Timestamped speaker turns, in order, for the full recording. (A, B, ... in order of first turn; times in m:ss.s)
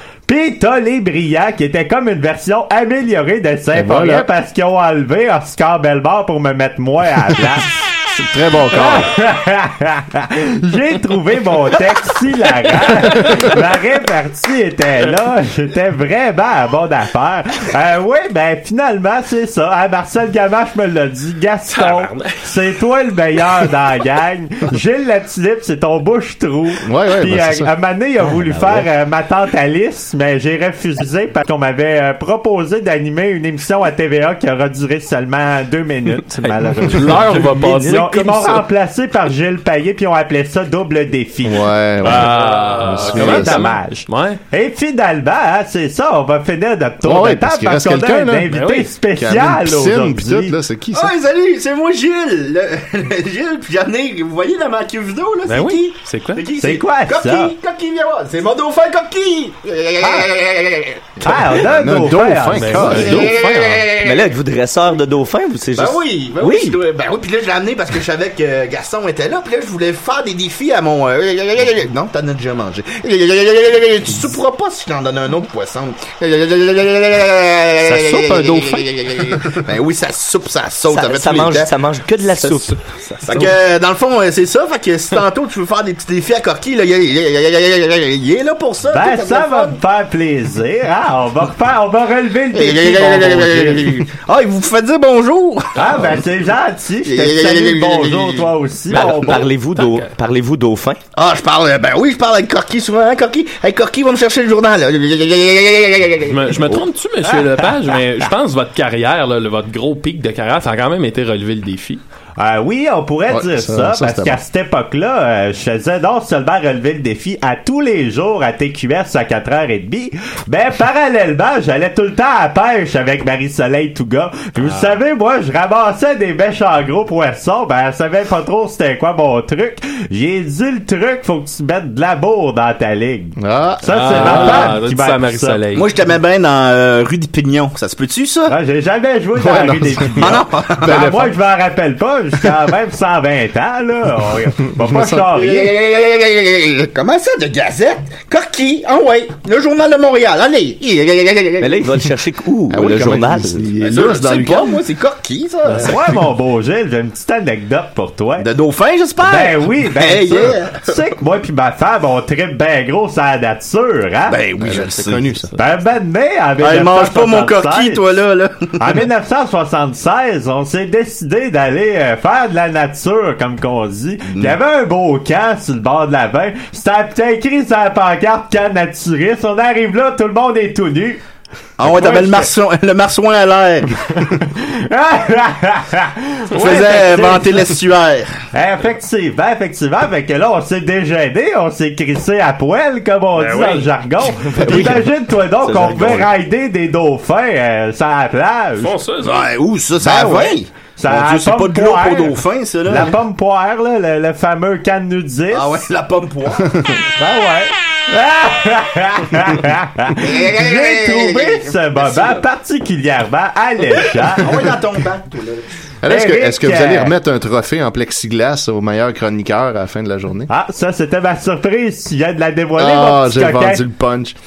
0:00.3-0:07.8 A
0:03.7-0:04.3 B
0:08.1-0:09.1 B
0:08.7-0:42.1 A
0:12.8-0:13.5 C
0:21.7-0:22.4 C
0:26.8-0:27.7 B
0:28.5-0:28.8 B
0:36.3-0:38.6 C
0:37.6-0:38.1 D
0:41.4-0:43.8 B
0:42.0-0:44.4 C
0:43.0-0:50.6 A
0:47.0-0:48.5 B
0:48.5-0:48.9 C
0:49.1-0:51.1 B
0:50.9-1:01.1 E
0:55.5-0:56.4 C
0:56.6-0:57.5 A
1:01.2-1:03.2 A
1:01.3-1:03.4 B
1:02.5-1:04.0 C
1:03.1-1:04.2 E
1:04.0-1:06.8 D
1:05.7-1:21.7 E
1:17.8-1:19.6 C
1:20.9-1:22.8 D
1:22.4-1:23.6 C
1:23.3-1:29.8 E
1:28.9-1:33.9 A
1:32.5-1:36.3 E
1:35.8-1:39.5 A
1:37.0-1:38.5 E
1:38.9-1:41.0 D
1:39.4-1:40.1 C
1:41.2-1:46.8 E
1:46.3-1:52.0 C
1:52.4-2:15.6 A
1:53.3-1:54.4 B
2:04.6-2:05.0 C
2:13.4-2:14.8 B
2:13.9-2:15.9 C
2:15.7-2:18.6 E
2:18.5-2:25.7 A
2:19.4-2:21.3 B
2:20.2-2:21.2 E
2:24.7-2:25.3 B
2:25.3-2:32.0 E
2:31.6-2:33.7 D
2:32.7-2:34.8 B
2:33.8-2:36.2 E
2:35.7-2:36.0 C
2:35.8-2:38.5 A
2:38.4-2:41.1 E
2:39.2-2:44.4 A
2:44.3-2:45.3 E
2:44.6-2:45.5 B
2:45.6-2:48.0 A
2:46.6-2:49.0 E
2:48.8-3:01.2 A
2:54.3-2:54.6 E
3:01.8-3:04.0 E
3:01.8-3:02.5 A
3:04.5-3:07.7 A
3:06.5-3:08.3 E
3:06.6-3:07.2 C
3:08.5-3:18.9 A
3:13.4-3:13.9 C
3:14.6-3:15.1 D
3:15.6-3:16.3 D
3:18.8-3:19.5 C
3:19.2-3:23.2 E
3:20.1-3:25.8 A
3:20.2-3:20.5 B
3:25.5-3:26.9 E
3:27.2-3:34.6 A
3:30.2-3:32.4 E
3:34.0-3:35.7 E
3:36.0-3:40.5 B
3:36.1-3:37.1 A
3:40.5-3:43.8 A
3:42.8-3:44.4 B